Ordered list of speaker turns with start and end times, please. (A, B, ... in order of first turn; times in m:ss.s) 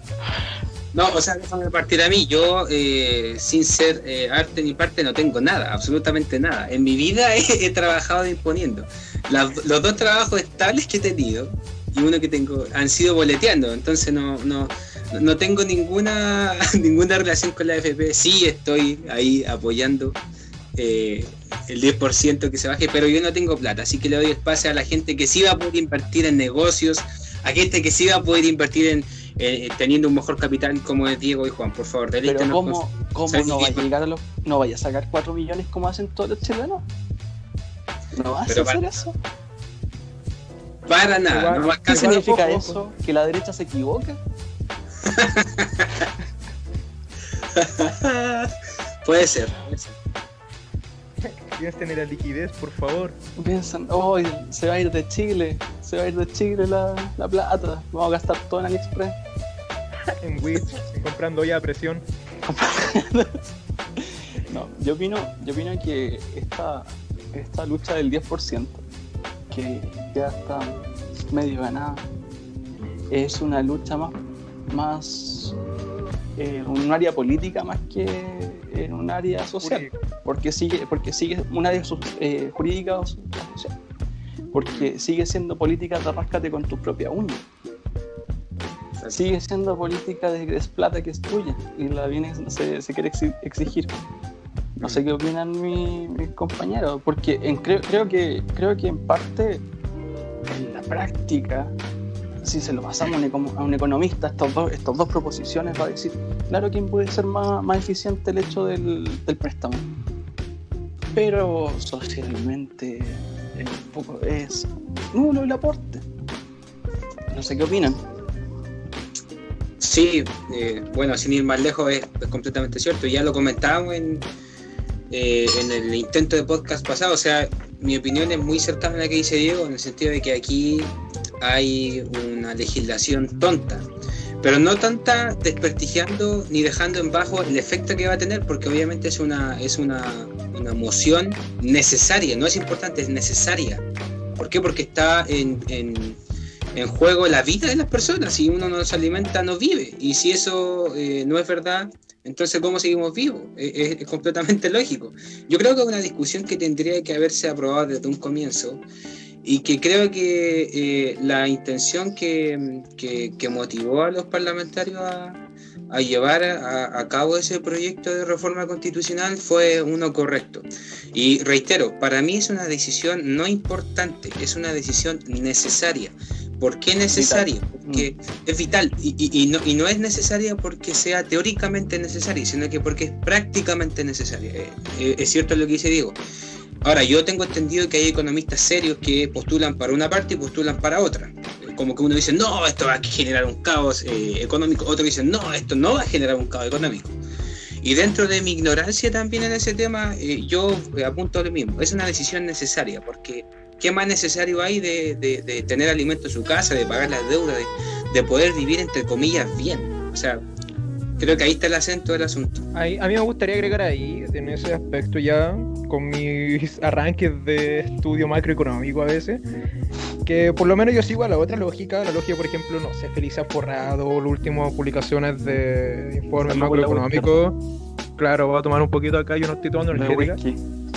0:00.9-0:20.2 A
0:20.8-0:33.9 A
0:32.2-0:36.8 B
0:38.1-0:39.2 B
0:38.4-0:38.8 A
0:40.8-0:42.2 A
0:41.3-0:42.8 C
0:42.0-0:44.2 B
0:45.0-0:46.1 A
0:47.5-0:49.9 A
0:51.5-0:53.2 C
0:53.4-0:59.2 B
1:00.2-1:02.0 C
1:02.4-1:03.4 B
1:04.0-1:08.8 B
1:09.5-1:12.0 B
1:13.1-1:15.6 B
1:16.4-1:23.7 B
1:19.6-1:19.9 C
1:24.5-1:27.4 B
1:29.0-1:29.3 A
1:29.1-1:34.0 B
1:34.8-1:39.6 B
1:40.5-1:41.7 B
1:42.4-1:49.9 B
1:51.1-1:56.0 B
1:57.3-1:58.0 B
1:59.8-2:04.2 A
2:05.1-2:13.9 A
2:14.4-2:23.8 A
2:24.4-2:26.2 A
2:26.7-2:38.8 A
2:39.4-3:06.2 A
2:57.1-2:58.1 B
3:06.8-3:17.2 A
3:17.8-3:30.4 A
3:31.2-3:32.6 A
3:32.7-3:39.4 C
3:40.2-3:47.6 C
3:46.4-3:47.4 B
3:48.2-3:50.4 C
3:49.9-3:50.6 B